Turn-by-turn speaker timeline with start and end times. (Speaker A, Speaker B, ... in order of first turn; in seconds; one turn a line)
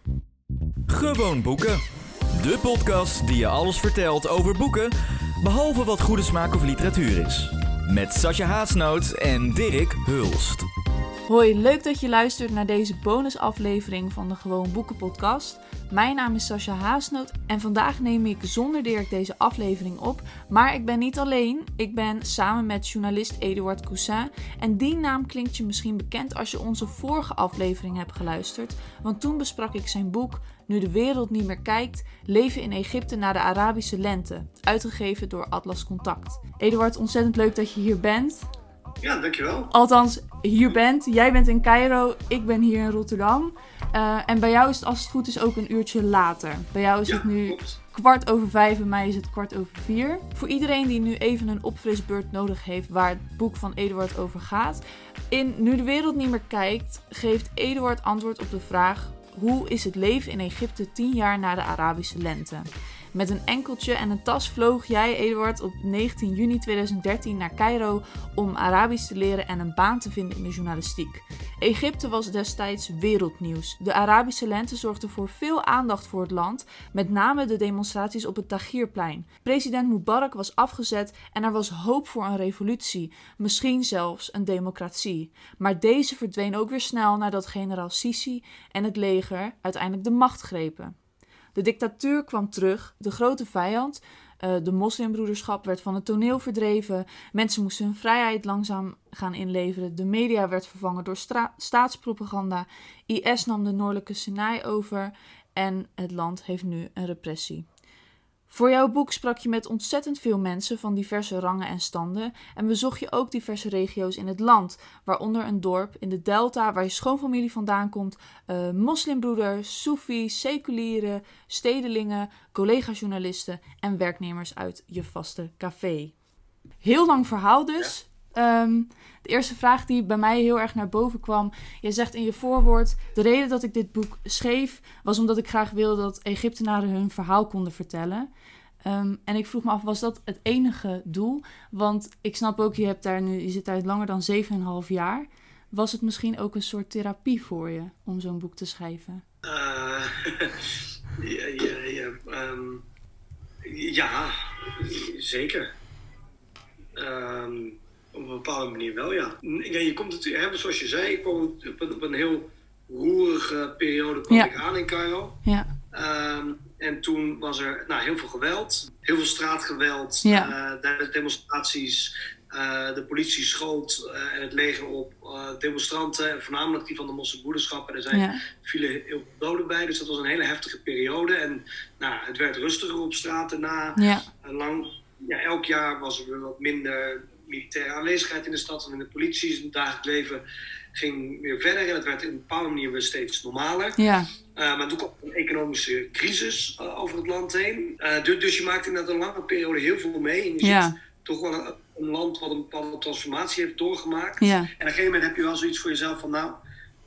Speaker A: 0.9-1.8
Speaker A: 2.3-10.7
Speaker B: 11.3-38.5
Speaker C: 39.0-39.7
Speaker B: 39.7-91.0
Speaker C: 47.1-47.8
Speaker B: 91.5-107.7
Speaker B: 108.5-126.1
Speaker B: 126.8-138.3
Speaker B: 138.8-149.2
Speaker C: 149.4-152.8
Speaker C: 153.6-155.7
Speaker C: 157.0-165.4
Speaker C: 165.9-190.4
Speaker B: 170.2-170.5
Speaker B: 178.1-178.4
Speaker B: 184.0-184.3
Speaker C: 190.9-194.0
Speaker B: 194.0-194.3
Speaker C: 194.6-206.6
Speaker B: 200.6-201.0
Speaker B: 204.4-204.7